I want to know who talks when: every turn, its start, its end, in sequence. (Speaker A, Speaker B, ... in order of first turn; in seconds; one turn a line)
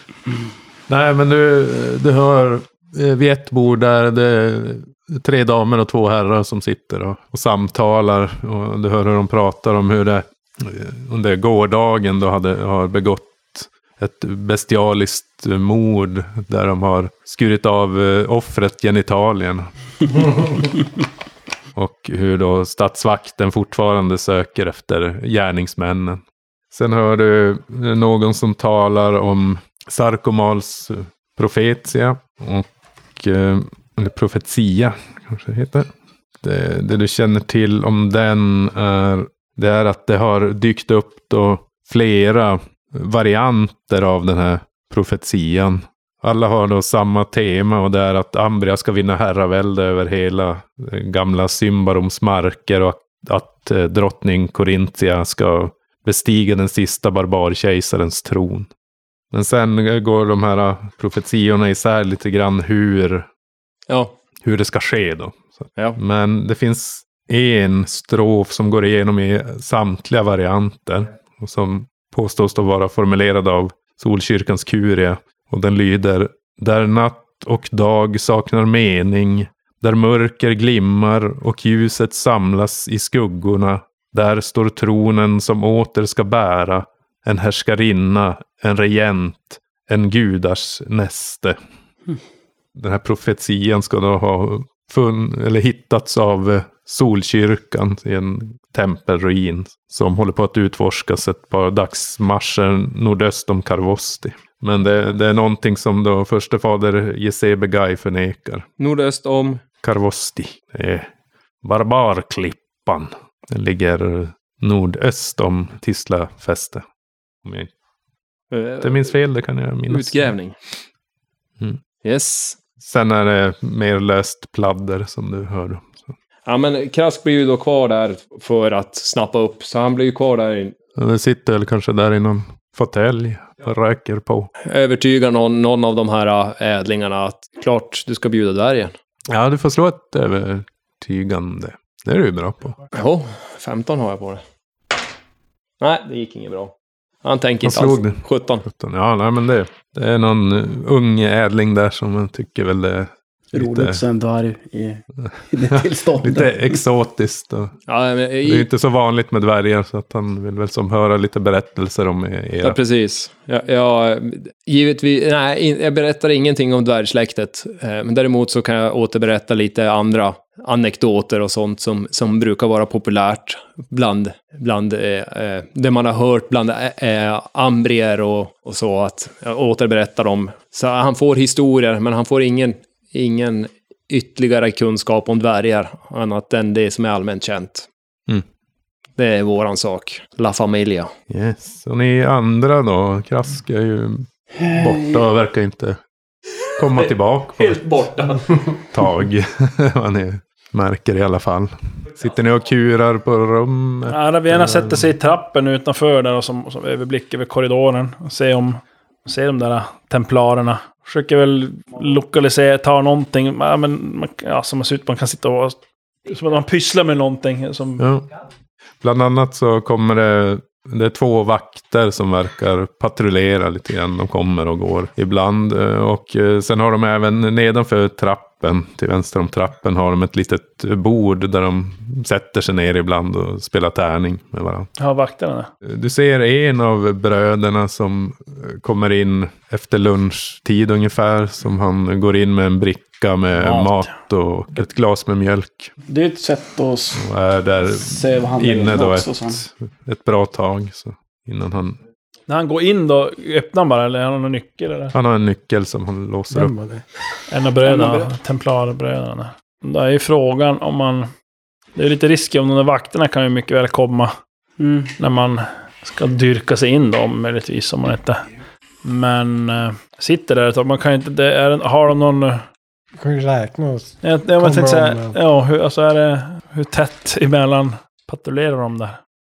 Speaker A: 0.9-19.7
Speaker A: 21.7-35.9
Speaker A: 36.4-58.7
Speaker A: 59.3-63.3
Speaker A: 64.4-91.6
Speaker A: 92.7-108.6
Speaker B: 108.8-109.6
Speaker A: 109.8-111.1
Speaker A: 111.6-116.8
Speaker A: 117.4-117.7
Speaker B: 118.5-119.1
Speaker A: 118.8-120.3
Speaker B: 119.9-120.5
Speaker B: 122.0-122.6
Speaker A: 122.8-126.1
Speaker B: 126.5-130.7
Speaker A: 130.9-134.5
Speaker B: 134.6-138.9
Speaker A: 139.3-142.8
Speaker B: 142.9-144.4
Speaker B: 145.8-148.7
Speaker A: 147.6-154.0
Speaker C: 153.5-156.7
Speaker A: 155.6-157.7
Speaker B: 157.9-158.7
Speaker A: 158.4-162.8
Speaker B: 162.6-187.9
Speaker B: 189.2-191.1
Speaker A: 191.3-196.0
Speaker C: 194.6-195.2
Speaker A: 196.8-197.8
Speaker B: 196.9-198.8
Speaker A: 198.9-205.1
Speaker D: 204.1-218.1
Speaker A: 218.0-218.3
Speaker A: 219.0-234.9
Speaker D: 235.0-235.7
Speaker A: 235.8-245.9
Speaker D: 243.6-244.0
Speaker C: 246.1-247.3
Speaker A: 247.2-252.0
Speaker C: 247.8-249.6
Speaker D: 252.5-255.1
Speaker A: 255.1-256.7
Speaker E: 256.5-257.0
Speaker D: 257.5-261.3
Speaker C: 257.9-258.3
Speaker D: 261.9-264.3
Speaker C: 264.8-265.1
Speaker D: 265.2-268.4
Speaker D: 269.0-272.6
Speaker E: 273.1-275.4
Speaker D: 274.2-279.2